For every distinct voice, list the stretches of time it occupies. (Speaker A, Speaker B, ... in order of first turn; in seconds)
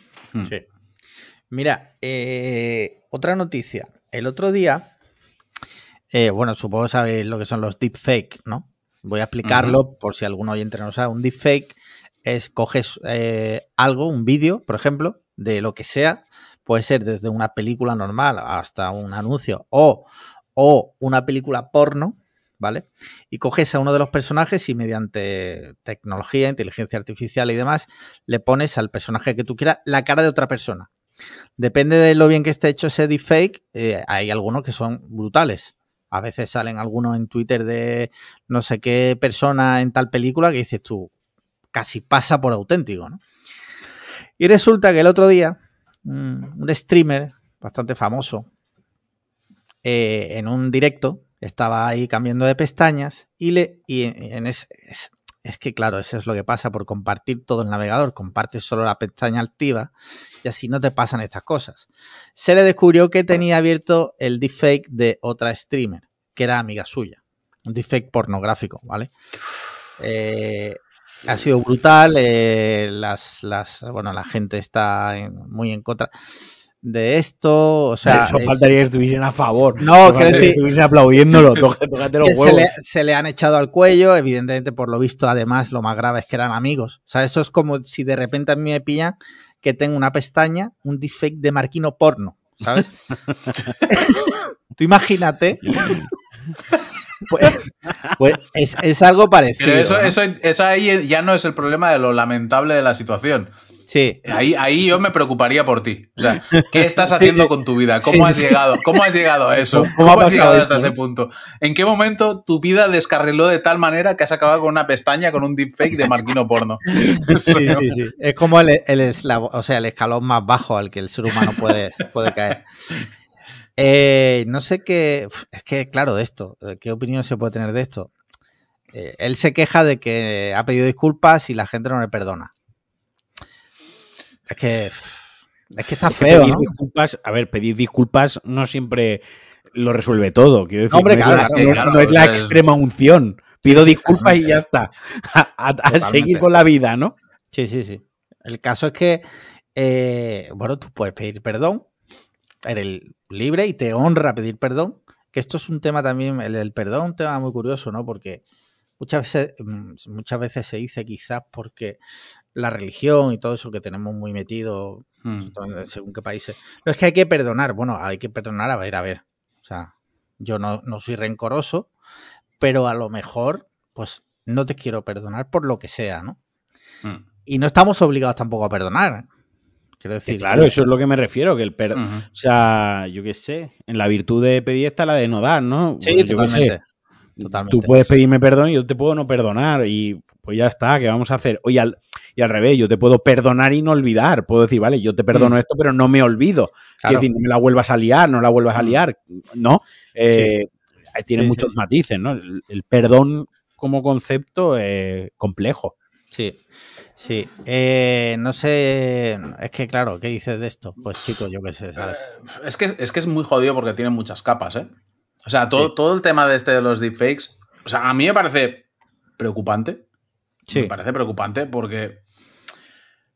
Speaker A: 1.5-4.9, 6.1-30.9, 31.6-41.1, 41.7-43.2, 44.4-48.5, 49.8-59.9, 60.4-69.1, 70.0-76.1, 76.8-78.9, 79.8-80.6, 82.2-92.9, 93.9-96.0, 98.2-100.1, 103.9-104.2, 107.2-107.5, 108.0-108.6, 109.8-110.8, 117.1-122.6, 123.8-128.1, 128.9-132.5, 134.5-136.7, 140.9-141.8, 143.7-144.3, 145.9-146.4, 147.5-149.2, 149.7-151.9, 152.6-158.4, 159.0-162.0, 162.5-171.9, 172.6-176.4, 177.4-179.3, 180.0-180.7, 186.0-186.8, 187.4-188.0, 201.3-201.7, 206.3-206.6, 207.2-212.2, 220.7-220.9
Speaker B: 9.4-9.8, 80.2-80.6, 99.6-103.5, 104.2-118.0, 141.2-142.6, 165.2-165.5, 181.9-182.2, 212.0-214.9, 215.4-218.8, 219.4-220.0, 220.7-222.2
Speaker C: 78.0-82.7, 97.3-98.1, 109.8-110.9, 136.1-139.2, 139.7-147.1, 180.3-186.7, 187.4-205.9